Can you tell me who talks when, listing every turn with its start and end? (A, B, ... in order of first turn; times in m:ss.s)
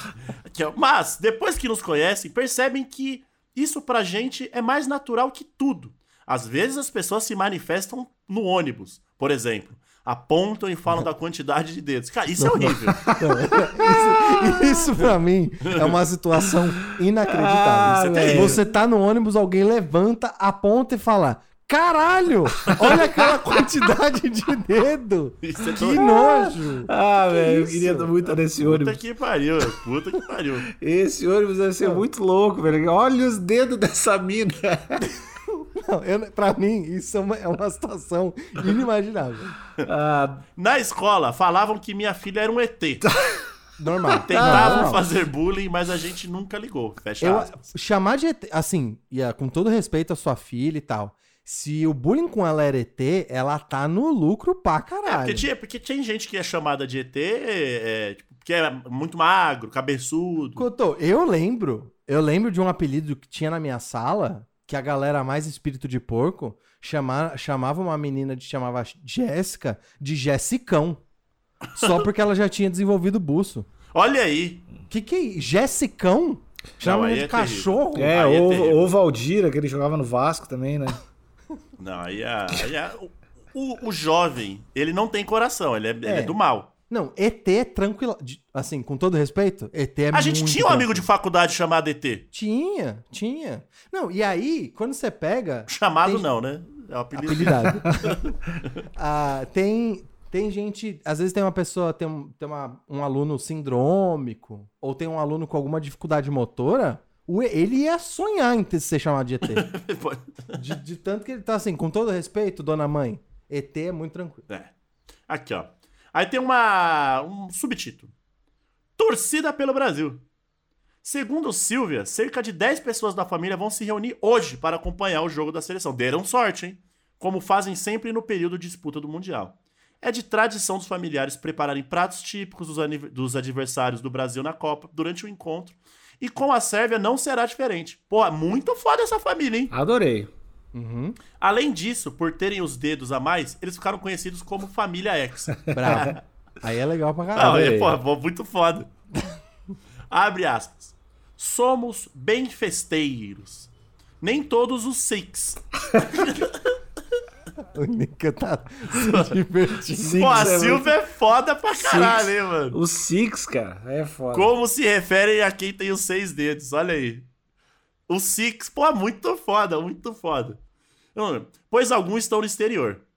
0:00.5-0:13.1 A
0:12.4-0:28.3 B
0:12.9-0:14.8 C
0:15.7-0:15.9 A
0:16.9-0:18.6 C
0:17.9-0:18.6 A
0:22.7-0:23.0 C
0:25.4-0:26.0 A
0:25.9-0:29.0 C
0:28.6-0:30.7 A
0:30.7-0:35.1 C
0:35.6-0:39.6 B
0:39.9-0:40.4 C
0:40.6-0:43.1 A
0:43.8-0:45.1 B
0:44.2-0:47.7 A
0:44.3-0:44.9 C
0:47.2-0:55.5 B
0:55.1-1:00.6 A
1:00.6-1:11.0 B
1:11.8-1:12.0 A
1:11.8-1:13.7 B
1:13.9-1:14.6 A
1:14.9-1:18.1 B
1:16.8-1:18.9 A
1:18.0-1:21.0 C
1:21.8-1:26.7 A
1:26.0-1:26.4 B
1:26.9-1:31.1 B
1:30.1-1:32.2 A
1:32.3-1:36.3 B
1:35.7-1:38.3 A
1:37.2-1:38.2 B
1:39.0-1:49.7 B
1:49.5-1:50.6 A
1:50.5-1:54.4 B
1:55.3-1:58.1 A
1:59.0-2:00.2 A
2:01.0-2:19.7 A
2:19.7-2:20.3 C
2:20.7-2:21.2 B
2:21.4-2:26.2 A
2:25.7-2:26.1 C
2:25.7-2:27.6 B
2:27.4-2:28.0 C
2:27.4-2:28.9 A
2:30.1-2:33.7 A
2:34.2-2:36.6 A
2:35.9-2:36.2 C
2:37.7-2:40.6 B
2:38.9-2:39.3 A
2:40.0-2:40.9 C
2:40.1-2:42.8 A
2:41.8-2:44.5 C
2:44.3-2:47.3 A
2:48.1-2:50.6 A
2:51.2-2:53.0 A